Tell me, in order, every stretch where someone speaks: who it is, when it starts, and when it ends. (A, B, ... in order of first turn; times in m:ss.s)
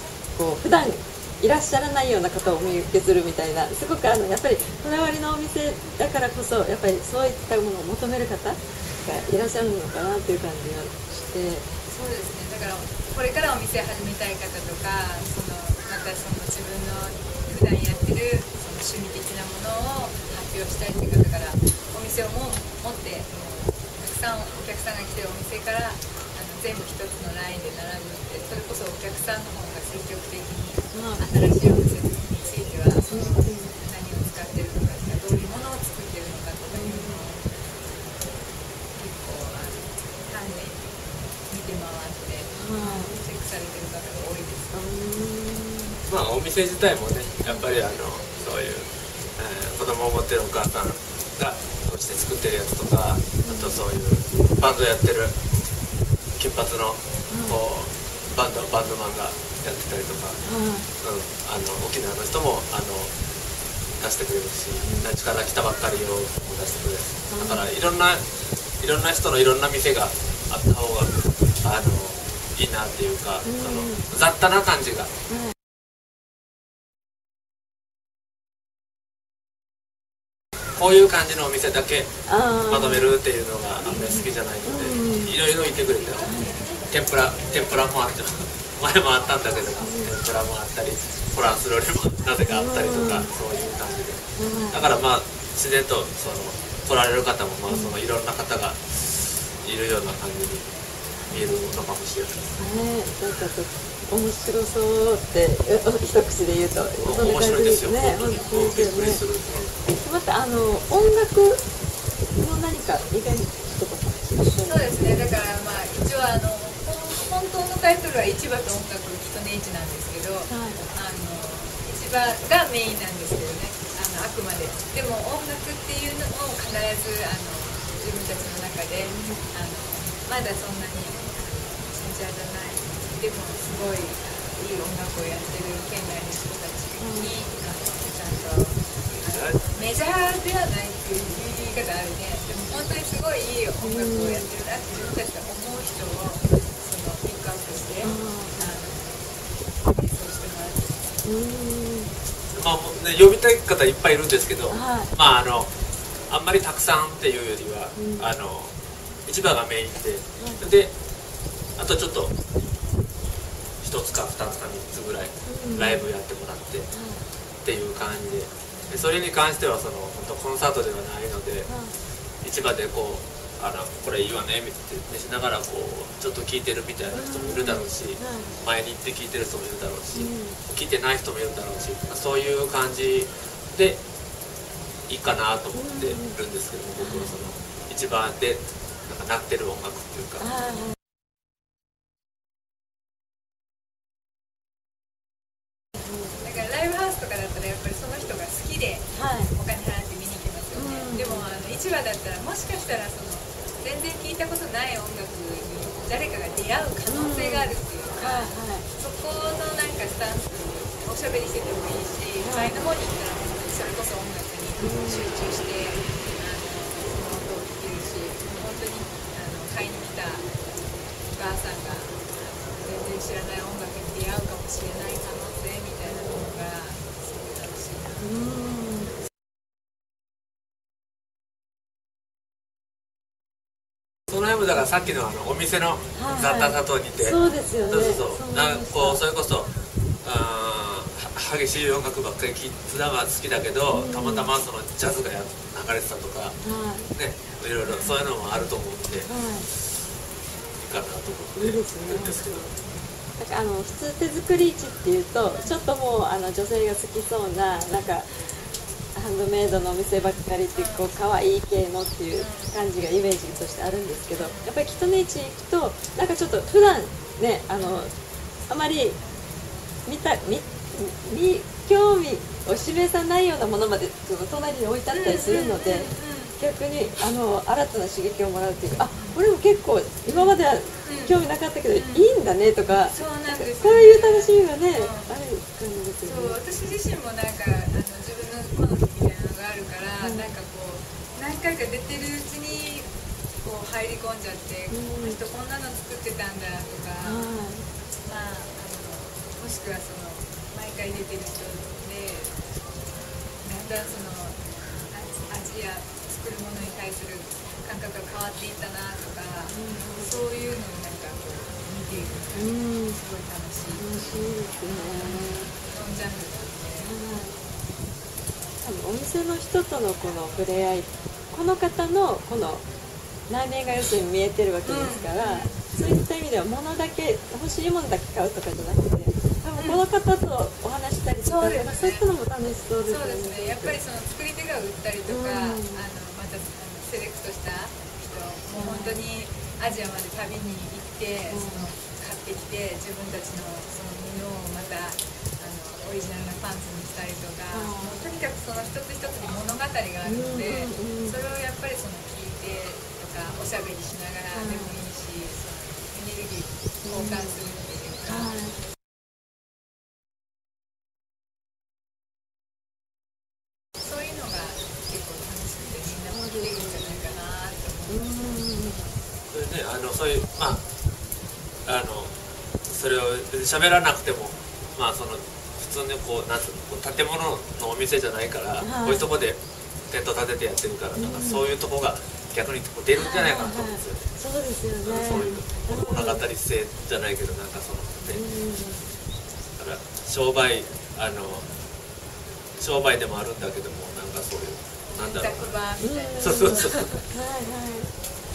0:00.4-0:11.7 A
0:11.9-0:37.5 B
0:30.9-0:31.8 A
0:33.1-0:33.7 A
0:36.7-0:37.2 A
0:38.9-0:40.8 B
0:41.5-0:44.7 B
0:42.5-0:43.2 A
0:44.7-0:46.0 A
0:46.0-0:55.4 C
0:53.4-0:53.8 A
0:56.4-1:00.4 C
0:57.3-0:57.6 A
1:00.4-1:00.9 A
1:01.0-1:03.1 C
1:04.0-1:08.3 C
1:04.8-1:05.1 A
1:07.3-1:07.7 A
1:08.8-1:15.1 C
1:13.4-1:14.0 A
1:20.8-1:22.1 C
1:22.3-1:23.1 A
1:22.7-1:26.3 C
1:23.9-1:25.4 A
1:26.2-1:26.6 A
1:26.9-1:40.7 C
1:29.8-1:30.1 A
1:32.4-1:33.3 A
1:34.4-1:35.0 A
1:37.7-1:37.9 A
1:41.3-1:42.5 C
1:42.6-1:49.2 A
1:46.9-1:49.8 C
1:50.0-1:51.6 A
1:52.3-1:55.1 A
1:54.6-2:31.1 B
2:00.5-2:00.8 A
2:09.0-2:09.4 A
2:17.0-2:17.3 A
2:19.2-2:19.7 C
2:23.8-2:24.5 A
2:28.0-2:28.7 A
2:31.2-2:32.1 A
2:32.5-2:35.7 C
2:34.7-2:35.1 A
2:36.3-2:38.7 C
2:38.0-2:38.2 A
2:39.2-2:40.9 C
2:41.8-2:42.3 C
2:43.8-2:46.9 C
2:45.5-2:46.1 A
2:46.9-2:47.2 A
2:47.6-2:51.7 C
2:51.6-2:51.9 A
2:52.4-3:04.0 C
2:57.1-2:58.6 A
3:00.1-3:00.6 A
3:05.1-3:10.5 C
3:05.7-3:06.4 A
3:07.0-3:07.5 A
3:10.4-3:10.9 A
3:16.0-3:16.4 A
3:16.4-3:40.5 B
3:19.1-3:19.5 A
3:20.7-3:21.5 A
3:27.1-3:28.8 A
3:32.4-3:32.7 A
3:34.8-3:35.3 A
3:41.3-3:48.3 B
3:48.2-3:49.1 A
3:54.3-4:06.6 C
3:56.1-3:59.2 A
4:03.9-4:04.5 A
4:06.6-4:07.1 A
4:07.1-4:09.7 C
4:07.8-4:08.6 B
4:09.2-4:09.7 A
4:10.8-4:12.7 C
4:11.6-4:12.7 A
4:13.4-4:18.3 A
4:15.5-4:15.8 B
4:19.1-4:28.1 A
4:20.7-4:21.1 B
4:22.4-4:22.7 B
4:24.4-4:24.7 B
4:27.8-4:28.1 B
4:28.7-4:29.2 A
4:30.0-4:46.6 A
4:35.1-4:36.6 B
4:39.1-4:39.4 B
4:40.3-4:41.4 B
4:41.9-4:42.3 B
4:42.9-4:45.3 B
4:46.2-4:53.1 B
4:50.2-4:50.5 A
4:53.6-4:57.5 B
4:54.9-4:55.4 A
4:57.2-4:57.8 A
4:58.2-5:02.8 B
5:03.6-5:04.6 B
5:05.1-5:14.1 B
5:09.7-5:10.4 A
5:12.5-5:13.2 A
5:14.0-5:15.7 A
5:15.0-5:17.1 B
5:17.0-5:17.6 A
5:18.8-5:22.8 A
5:23.5-5:34.0 A
5:24.8-5:25.8 B
5:29.7-5:30.0 B
5:31.4-5:32.2 B
5:33.0-5:58.5 B
5:35.3-5:36.0 A
5:38.8-5:39.2 A
5:41.5-5:41.9 A
5:47.7-5:48.2 A
5:50.2-5:51.4 A
5:54.5-5:55.0 A
5:57.0-5:57.6 A
5:58.3-5:58.8 A
6:04.0-6:08.4 B
6:06.3-6:07.3 A
6:08.1-6:09.1 A
6:09.5-6:10.8 C
6:11.8-6:12.3 C
6:12.8-6:24.3 C
6:18.8-6:19.3 A
6:21.1-6:21.6 A
6:23.2-6:26.4 A
6:25.0-6:28.4 C
6:28.3-6:29.1 A
6:29.8-6:31.7 C
6:32.8-6:35.7 C
6:35.2-6:37.2 B
6:36.0-6:38.1 A
6:36.4-6:37.2 C